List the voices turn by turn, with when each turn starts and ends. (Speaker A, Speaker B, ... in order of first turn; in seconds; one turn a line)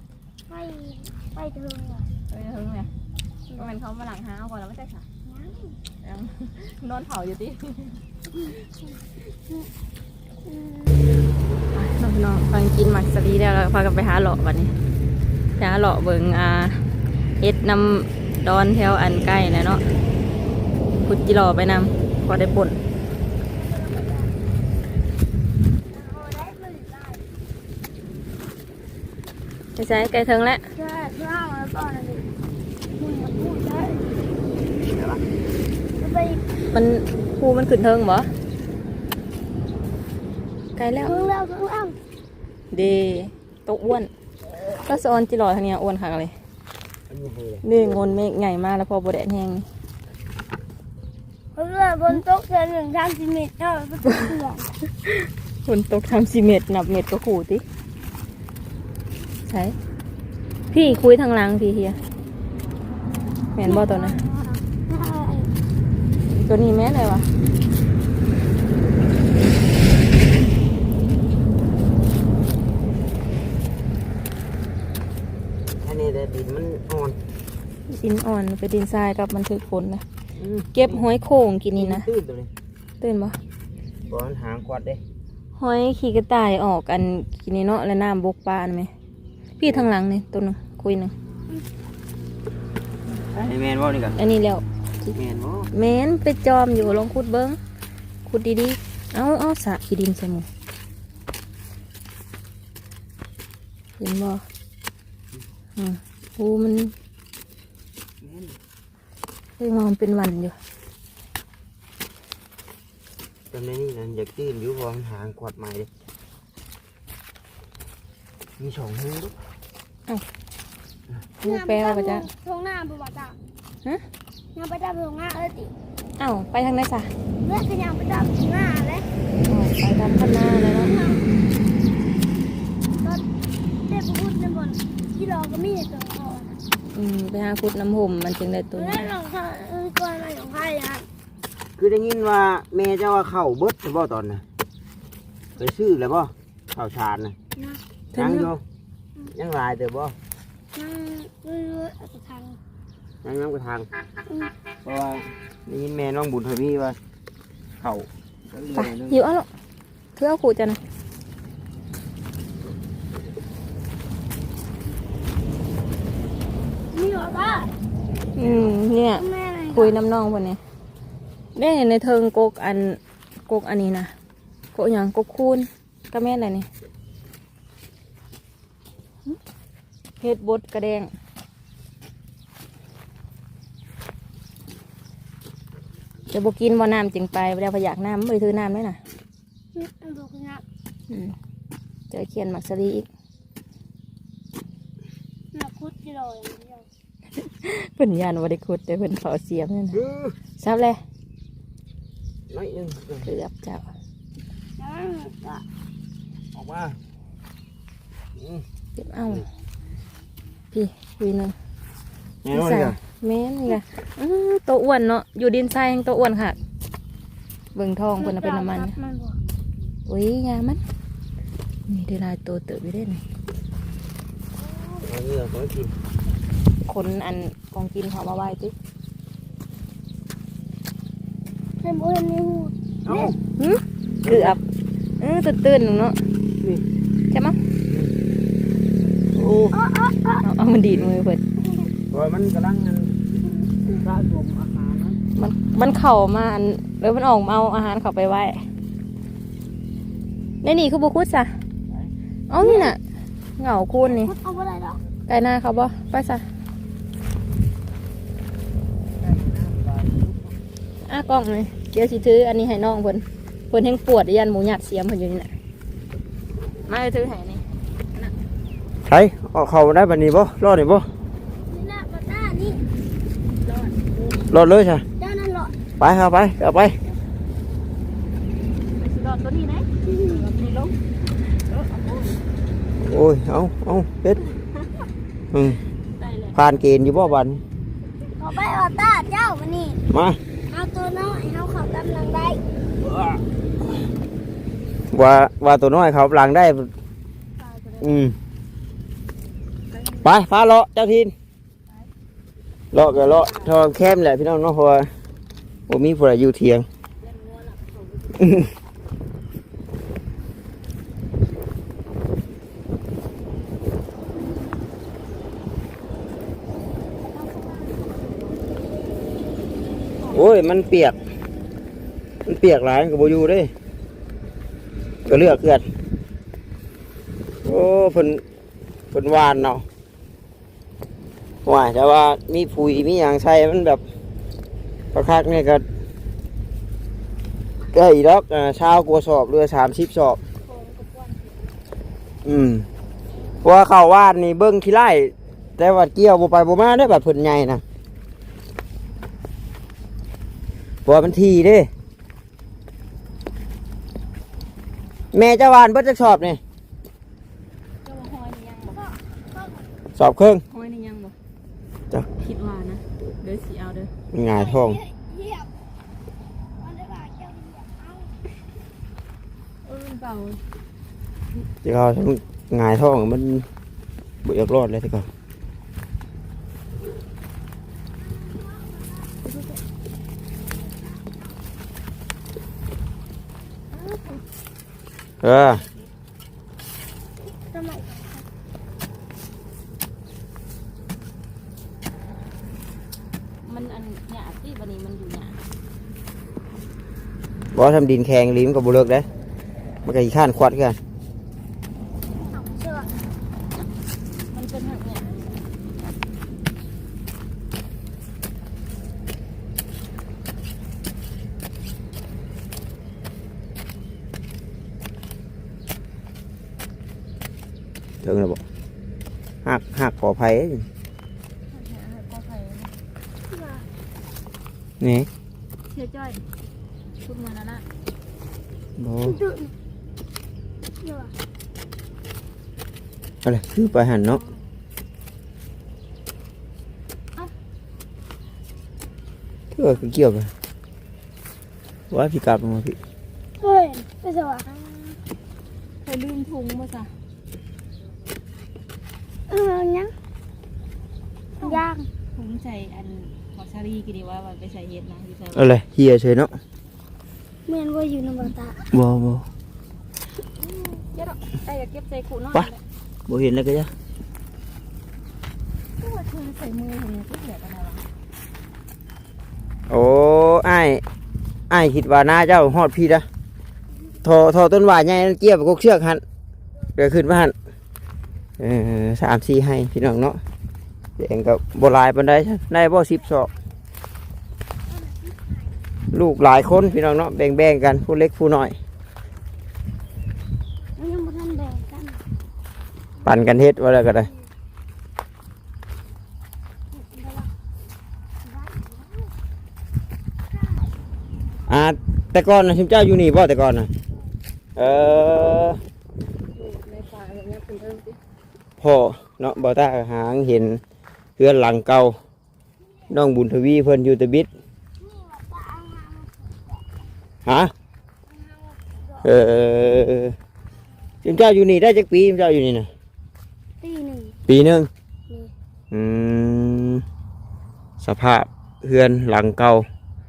Speaker A: 0.5-2.1
Speaker B: 2.3-2.9
Speaker B: 3.5-5.1
Speaker A: 5.2-5.8
Speaker B: 6.0-8.0
Speaker A: 8.3-8.6
Speaker A: 9.2-9.7
Speaker A: 10.4-11.1
Speaker B: 11.7-14.7
Speaker B: 15.6-16.8
Speaker B: 17.4-19.8
Speaker B: 21.0-22.8
Speaker A: 23.5-24.3
Speaker A: 25.9-27.3
Speaker B: 29.8-30.7
Speaker A: 30.8-32.3
Speaker A: 33.0-34.2
Speaker A: 36.0-36.5
Speaker B: 36.7-38.3
Speaker B: 40.8-41.3
Speaker A: 41.0-42.0
Speaker B: 42.7-44.1
Speaker B: 44.8-46.3
Speaker C: 47.1-48.0
Speaker B: 47.6-49.7
Speaker A: 51.5-54.7
Speaker B: 54.1-54.3
Speaker B: 54.9-57.6
Speaker B: 59.5-59.8
Speaker B: 60.7-62.0
Speaker B: 63.5-64.2
Speaker A: 63.6-65.5
Speaker B: 66.3-67.3
Speaker C: 75.8-77.2
Speaker B: 77.9-80.0
Speaker C: 80.4-81.0
Speaker B: 80.7-82.1
Speaker C: 81.8-82.5
Speaker B: 83.0-83.4
Speaker C: 84.1-85.0
Speaker B: 85.5-88.9
Speaker B: 89.6-91.1
Speaker C: 93.3-94.2
Speaker B: 94.2-95.2
Speaker C: 95.1-95.7
Speaker B: 95.7-97.6
Speaker B: 98.3-100.5
Speaker B: 104.0-104.4
Speaker B: 105.8-106.9
Speaker C: 108.2-108.6
Speaker B: 109.6-110.5
Speaker C: 113.5-115.9
Speaker C: 118.6-119.3
Speaker B: 121.4-122.2
Speaker A: 121.4-123.4
Speaker A: 124.5-125.7
Speaker B: 126.2-127.1
Speaker A: 127.4-129.1
Speaker B: 129.5-130.9
Speaker A: 130.8-131.3
Speaker A: 133.9-136.6
Speaker B: 136.9-139.1
Speaker A: 138.8-141.1
Speaker C: 141.8-144.4
Speaker C: 145.6-147.4
Speaker A: 147.6-147.8
Speaker B: 148.1-148.5
Speaker C: 148.2-148.6
Speaker C: 149.3-150.2
Speaker A: 150.7-152.6
Speaker C: 153.2-153.9
Speaker A: 154.2-154.5
Speaker C: 154.8-157.0
Speaker C: 157.8-159.2
Speaker B: 158.8-159.5
Speaker B: 160.2-160.8
Speaker A: 166.9-167.7
Speaker B: 168.4-170.6
Speaker A: 169.2-170.0
Speaker B: 171.6-174.1
Speaker B: 174.7-176.7
Speaker B: 180.2-181.1
Speaker B: 186.3-189.0
Speaker A: 189.7-190.6
Speaker B: 191.1-191.4
Speaker B: 192.1-193.1
Speaker A: 195.5-196.9
Speaker B: 197.3-200.0
Speaker C: 199.9-200.4
Speaker B: 200.6-201.0
Speaker C: 202.5-203.3
Speaker B: 203.3-203.9
Speaker A: 204.8-205.7
Speaker C: 206.6-207.0
Speaker C: 208.4-208.6
Speaker B: 209.0-209.4
Speaker B: 210.7-211.6
Speaker C: 212.4-213.0
Speaker B: 212.5-216.6
Speaker B: 217.8-218.9
Speaker A: 218.2-219.4
Speaker B: 220.1-220.8
Speaker B: 221.9-223.2
Speaker A: 224.7-225.0
Speaker C: 225.0-225.9
Speaker B: 226.9-228.8
Speaker A: 231.8-233.3
Speaker C: 233.1-233.4
Speaker B: 233.6-234.6
Speaker C: 234.2-234.6
Speaker B: 235.2-236.2
Speaker C: 236.6-236.8
Speaker B: 237.3-237.6
Speaker C: 239.3-239.8
Speaker A: 239.7-240.5
Speaker B: 240.4-241.4
Speaker A: 241.6-241.8
Speaker C: 242.1-243.2
Speaker C: 244.0-245.2
Speaker B: 245.4-248.7
Speaker B: 250.6-251.6
Speaker B: 252.5-253.0
Speaker A: 252.6-252.9
Speaker B: 253.6-254.3
Speaker A: 254.0-255.0
Speaker B: 255.3-256.4
Speaker C: 259.2-260.5
Speaker B: 261.1-265.5
Speaker B: 266.9-267.6
Speaker C: 269.1-271.1
Speaker A: 271.7-272.9
Speaker B: 273.6-274.4
Speaker C: 274.5-275.1
Speaker A: 275.2-275.8
Speaker C: 276.0-277.0
Speaker B: 279.0-282.4
Speaker A: 280.0-280.4
Speaker C: 283.0-284.4
Speaker C: 285.5-285.8
Speaker B: 286.2-286.6
Speaker C: 286.5-287.6
Speaker A: 288.4-290.0
Speaker C: 290.1-290.4
Speaker A: 290.7-292.7
Speaker C: 293.0-293.4
Speaker C: 295.1-296.9
Speaker B: 297.6-298.1
Speaker C: 298.0-298.4
Speaker B: 299.9-300.3
Speaker C: 300.2-301.3
Speaker C: 302.9-305.1
Speaker B: 303.2-303.7
Speaker C: 305.9-306.9
Speaker B: 307.2-308.4
Speaker C: 308.4-308.7
Speaker A: 317.4-317.9
Speaker B: 317.6-318.5
Speaker C: 320.3-321.2
Speaker C: 322.5-323.7
Speaker C: 325.3-325.9
Speaker C: 327.6-328.4
Speaker C: 329.1-329.9
Speaker C: 331.6-334.0
Speaker C: 335.1-335.8
Speaker C: 337.9-340.4
Speaker B: 340.6-341.7
Speaker C: 342.4-342.9
Speaker C: 343.6-347.8
Speaker C: 351.1-351.9
Speaker C: 355.3-356.6
Speaker B: 358.0-359.0
Speaker A: 358.9-360.0
Speaker C: 360.1-360.6
Speaker B: 360.7-361.4
Speaker B: 362.4-364.1
Speaker C: 364.3-365.0
Speaker A: 364.5-365.7
Speaker A: 366.8-368.4
Speaker B: 369.8-370.6
Speaker C: 371.8-373.7
Speaker C: 374.4-375.3
Speaker A: 378.2-379.5
Speaker B: 379.5-379.7
Speaker A: 380.8-381.4
Speaker B: 383.9-384.4
Speaker C: 385.4-385.8
Speaker A: 387.5-388.4
Speaker B: 393.6-395.6
Speaker C: 397.7-399.3
Speaker C: 400.1-401.0
Speaker A: 402.5-403.1
Speaker B: 404.5-405.6
Speaker C: 418.2-418.6
Speaker C: 419.6-420.9
Speaker B: 421.7-422.9
Speaker A: 423.5-423.9
Speaker C: 425.0-425.3
Speaker B: 425.9-426.4
Speaker B: 427.2-427.9
Speaker C: 429.0-429.4
Speaker A: 429.2-429.7
Speaker A: 431.0-431.3
Speaker C: 433.4-434.4
Speaker C: 439.7-440.5
Speaker C: 442.1-443.0
Speaker A: 443.6-444.7
Speaker B: 444.8-445.2
Speaker B: 446.0-447.1
Speaker A: 449.5-450.1
Speaker B: 451.6-451.8
Speaker A: 451.6-452.1
Speaker B: 452.4-455.7
Speaker C: 455.6-456.6
Speaker A: 457.7-458.8
Speaker C: 458.9-459.5
Speaker B: 460.7-462.8
Speaker C: 463.3-463.9
Speaker B: 466.0-468.1
Speaker C: 469.9-471.0
Speaker C: 471.7-473.3
Speaker C: 474.2-476.2
Speaker C: 477.0-477.5
Speaker C: 478.6-480.4
Speaker C: 481.2-483.5
Speaker A: 484.9-485.8
Speaker C: 486.1-488.8
Speaker A: 491.0-492.2
Speaker C: 493.2-494.3
Speaker A: 496.9-497.5
Speaker A: 498.4-499.3
Speaker A: 500.5-500.9
Speaker C: 501.7-503.9
Speaker C: 504.8-505.8
Speaker B: 506.6-508.2
Speaker C: 508.8-510.8
Speaker C: 511.4-512.2
Speaker A: 512.8-513.2
Speaker C: 513.1-514.5
Speaker A: 515.0-516.9
Speaker C: 517.5-517.7
Speaker A: 518.3-519.3
Speaker C: 519.2-520.3
Speaker C: 521.2-522.9
Speaker A: 523.8-524.4
Speaker C: 524.5-524.9
Speaker A: 525.3-525.5
Speaker C: 525.9-527.0
Speaker C: 528.0-529.9